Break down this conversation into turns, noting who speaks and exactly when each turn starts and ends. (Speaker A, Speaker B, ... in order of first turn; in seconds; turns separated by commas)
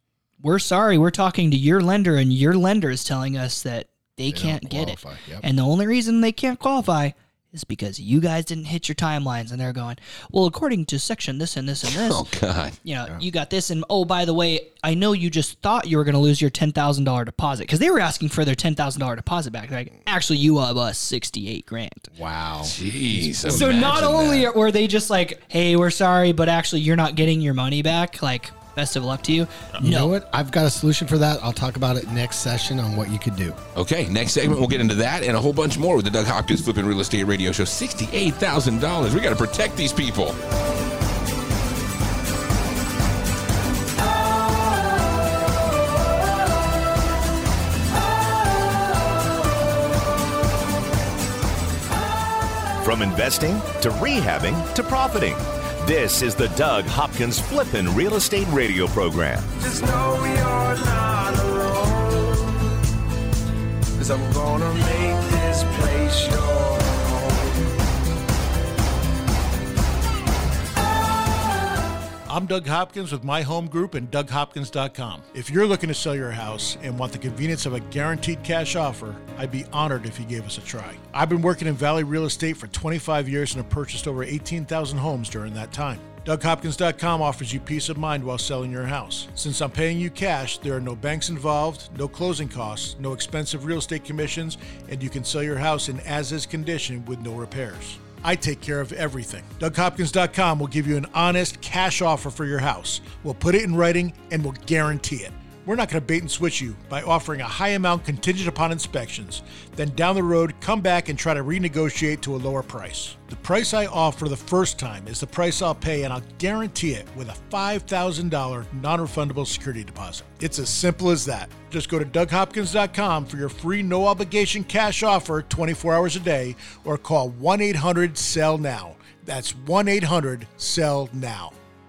Speaker A: 0.4-12.3, Speaker B: 4.3-5.5, Speaker C: 11.9-12.8, Speaker A: 12.8-22.1, Speaker B: 22.1-24.5, Speaker C: 22.6-24.4, Speaker A: 23.5-30.2, Speaker B: 29.8-33.6, Speaker C: 33.8-40.4, Speaker D: 52.8-59.5, Speaker E: 59.6-62.6, Speaker E: 64.0-67.8, Speaker F: 72.3-131.6